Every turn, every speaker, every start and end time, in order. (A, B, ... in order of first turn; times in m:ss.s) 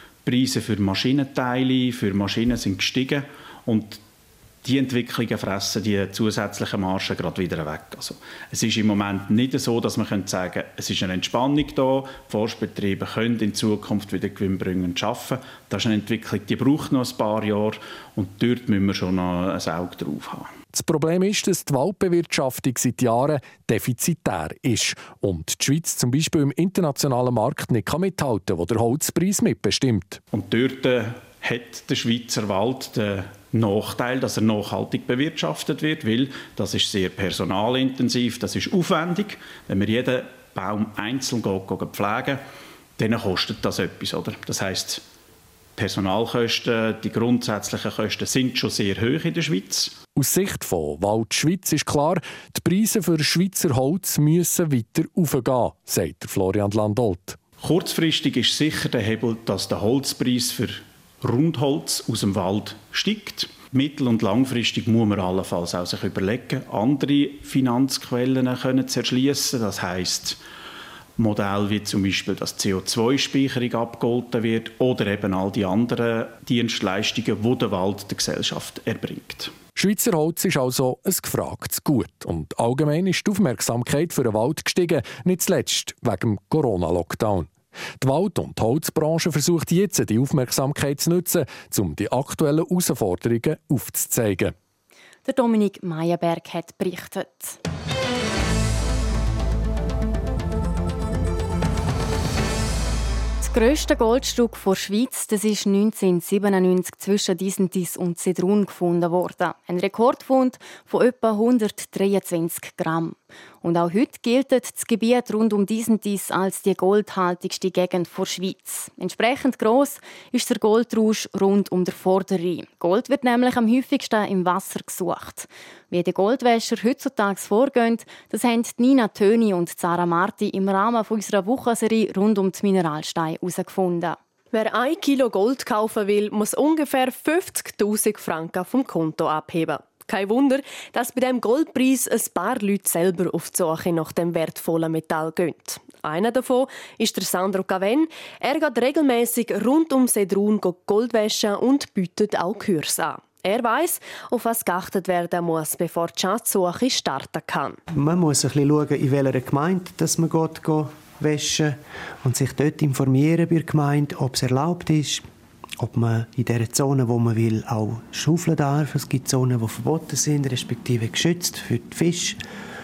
0:00.2-0:04.0 A
0:04.6-0:20.5 A
0:20.7-0:30.2 B
0:30.3-0:42.4 A
0:43.0-0:45.0 A
0:45.8-0:49.9 A
0:50.2-0:57.4 B
0:57.6-1:10.4 A
1:11.2-1:19.5 A
1:19.8-1:34.5 B
1:35.2-1:37.6 C
1:43.4-2:14.2 C
2:14.5-2:37.8 D
2:37.9-2:45.3 E
2:45.8-2:52.4 E